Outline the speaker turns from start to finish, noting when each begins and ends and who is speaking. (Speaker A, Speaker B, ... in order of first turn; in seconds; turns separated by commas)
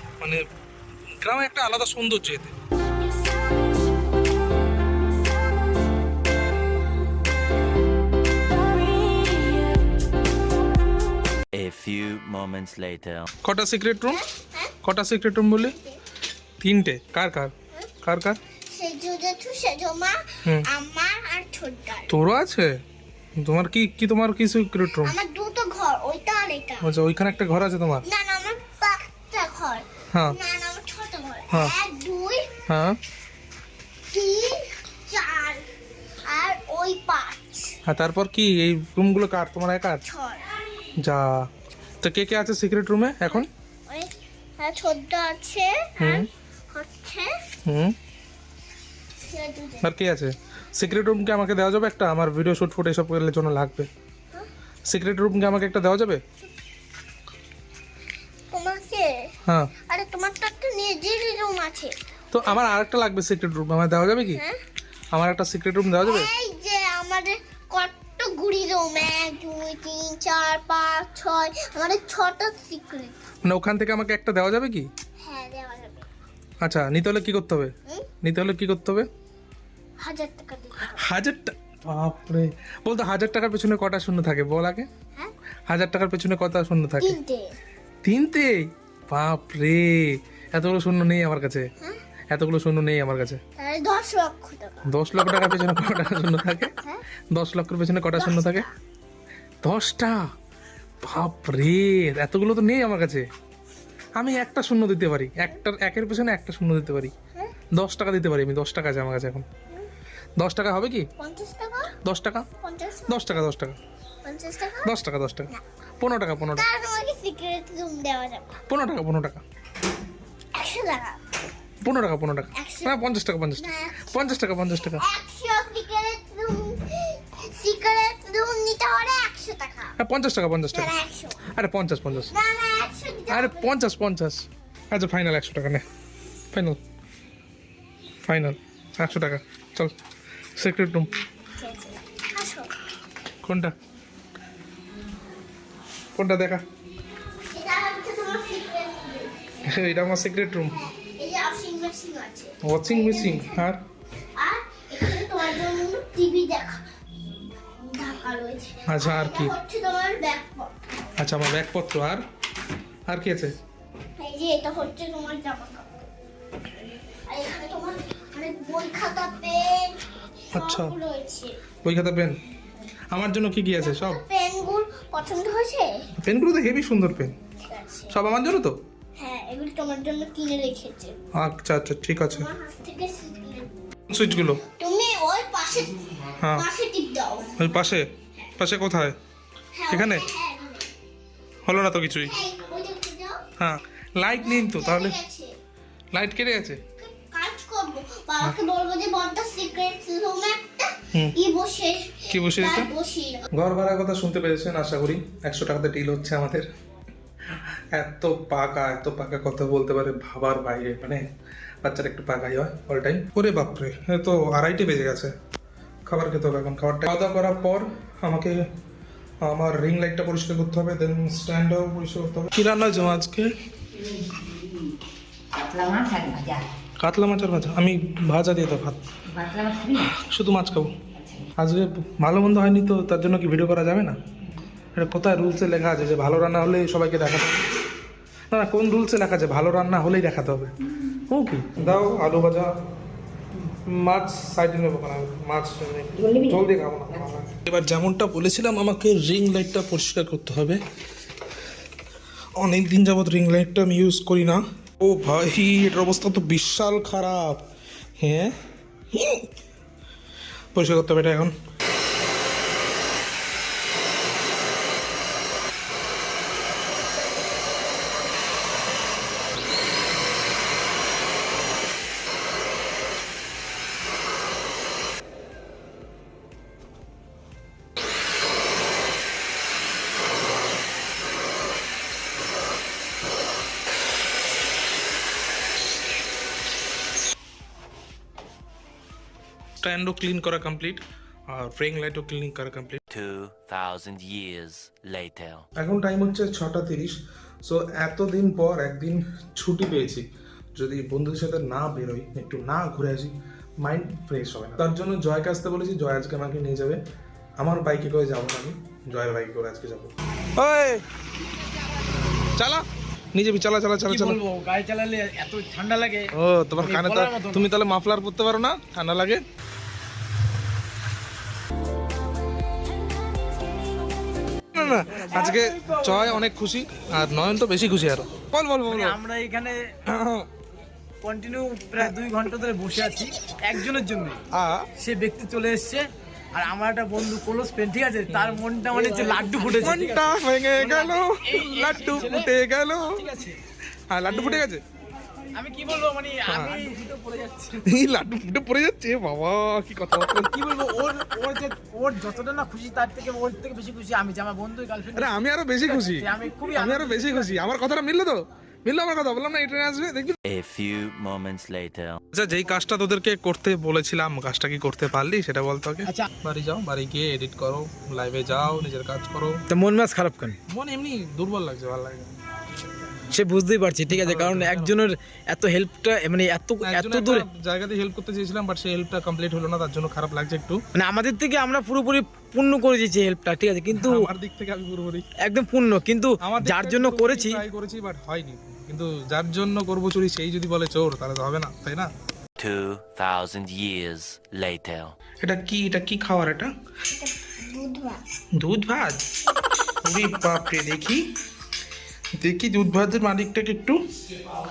Speaker A: 1.2-2.5, Speaker B: 11.5-13.3, Speaker A: 13.4-14.2, Speaker C: 14.1-14.7, Speaker A: 14.8-15.8, Speaker C: 15.6-16.0, Speaker A: 16.6-18.4, Speaker C: 18.7-22.1, Speaker A: 22.1-22.7, Speaker A: 23.4-25.2, Speaker C: 25.1-26.9, Speaker A: 26.8-28.1, Speaker C: 28.1-32.5, Speaker A: 30.1-30.4, Speaker A: 32.7-33.0, Speaker C: 34.1-35.6, Speaker C: 36.3-37.8, Speaker A: 37.9-40.0, Speaker C: 40.1-40.5, Speaker A: 41.0-41.5, Speaker A: 42.0-43.5, Speaker C: 43.3-47.3, Speaker A: 46.0-46.3, Speaker A: 47.7-48.0, Speaker C: 49.2-49.9, Speaker A: 49.8-53.9, Speaker A: 54.9-56.2, Speaker C: 58.5-59.3, Speaker C: 59.9-61.9, Speaker A: 62.3-64.4, Speaker A: 65.1-66.3, Speaker C: 66.0-73.2, Speaker A: 73.4-74.9, Speaker C: 75.2-76.1, Speaker A: 76.6-77.7, Speaker A: 78.2-79.1, Speaker C: 80.0-81.0, Speaker A: 80.8-84.9, Speaker A: 85.7-87.2, Speaker C: 87.0-87.5, Speaker A: 88.0-91.7, Speaker A: 92.3-93.4, Speaker C: 93.6-94.9, Speaker A: 94.9-96.7, Speaker C: 96.7-97.0, Speaker A: 97.3-98.7, Speaker C: 98.2-98.7, Speaker A: 99.6-100.2, Speaker A: 101.0-103.3, Speaker A: 104.2-107.1, Speaker A: 107.8-109.5, Speaker A: 110.4-111.1, Speaker C: 111.2-111.9, Speaker A: 112.0-112.5, Speaker C: 112.6-113.4, Speaker A: 113.1-113.8, Speaker C: 114.2-114.9, Speaker A: 114.8-116.7, Speaker C: 116.5-118.6, Speaker A: 118.7-119.4, Speaker C: 120.5-121.2, Speaker A: 121.8-125.0, Speaker C: 122.5-123.1, Speaker C: 123.6-124.3, Speaker C: 125.0-129.9, Speaker A: 130.0-130.9, Speaker C: 130.7-131.4, Speaker A: 131.5-132.3, Speaker C: 132.3-133.8, Speaker A: 133.3-135.8, Speaker A: 136.5-136.8, Speaker A: 138.3-139.9, Speaker A: 140.6-141.1, Speaker C: 141.6-142.7, Speaker A: 143.4-143.7, Speaker A: 146.2-146.6, Speaker C: 147.5-149.4, Speaker A: 149.7-150.8, Speaker C: 150.7-153.7, Speaker A: 152.6-153.8, Speaker C: 154.4-156.8, Speaker C: 157.6-160.7, Speaker A: 158.9-159.5, Speaker A: 161.2-162.2, Speaker A: 163.1-163.5, Speaker C: 164.2-166.1, Speaker C: 167.3-170.0, Speaker A: 170.5-171.0, Speaker C: 170.6-171.6, Speaker A: 171.8-172.4, Speaker A: 173.1-174.2, Speaker C: 173.8-175.9, Speaker A: 176.2-177.3, Speaker C: 177.7-178.1, Speaker A: 178.1-178.8, Speaker C: 179.2-181.2, Speaker A: 181.4-182.5, Speaker C: 182.3-183.7, Speaker A: 184.1-184.6, Speaker C: 184.6-188.5, Speaker A: 186.4-186.7, Speaker A: 187.6-188.1, Speaker A: 188.6-189.2, Speaker C: 189.7-190.9, Speaker A: 189.9-190.3, Speaker A: 191.7-192.3, Speaker C: 192.3-193.4, Speaker A: 193.6-195.2, Speaker C: 194.4-195.5, Speaker A: 196.1-196.8, Speaker C: 197.0-203.4, Speaker A: 202.3-202.9, Speaker A: 203.5-206.7, Speaker A: 207.9-211.2, Speaker A: 211.8-215.3, Speaker A: 216.1-218.6, Speaker A: 219.4-223.5, Speaker D: 225.5-226.7, Speaker A: 227.0-229.0, Speaker D: 229.3-230.1, Speaker A: 229.9-230.9, Speaker D: 231.2-231.4, Speaker A: 231.6-234.2, Speaker A: 235.0-237.7, Speaker A: 238.5-242.7, Speaker A: 243.9-250.8, Speaker D: 246.2-246.6, Speaker A: 252.6-257.6, Speaker A: 258.2-258.6, Speaker A: 259.1-259.5, Speaker A: 260.7-261.5, Speaker A: 289.8-293.0, Speaker B: 293.1-295.6, Speaker A: 295.8-300.2, Speaker A: 300.8-307.0, Speaker A: 307.6-311.0, Speaker A: 312.6-312.8, Speaker A: 313.4-314.4, Speaker E: 314.1-316.3, Speaker A: 316.4-319.4, Speaker E: 316.8-317.7, Speaker A: 324.7-329.2, Speaker E: 324.8-326.5, Speaker E: 328.9-329.8, Speaker A: 330.1-330.5, Speaker E: 331.2-334.4, Speaker A: 334.5-334.9, Speaker E: 335.0-336.1, Speaker E: 336.6-342.5, Speaker A: 338.3-338.6, Speaker D: 339.2-339.7, Speaker A: 339.8-343.1, Speaker E: 343.1-343.6, Speaker A: 344.1-344.8, Speaker E: 344.3-344.6, Speaker E: 345.5-347.8, Speaker A: 346.5-346.8, Speaker A: 347.9-350.5, Speaker E: 350.4-357.6, Speaker A: 355.1-360.4, Speaker B: 360.5-362.2, Speaker A: 362.3-369.6, Speaker E: 369.7-370.6, Speaker A: 370.7-372.3, Speaker E: 373.3-377.5, Speaker A: 374.1-374.9, Speaker A: 376.8-380.8, Speaker E: 381.0-384.3, Speaker A: 383.9-385.3, Speaker E: 385.4-387.6, Speaker A: 386.4-392.1, Speaker B: 392.6-395.1, Speaker A: 395.4-396.7, Speaker C: 397.1-398.2, Speaker A: 398.6-399.2, Speaker A: 400.0-401.2, Speaker A: 402.4-404.0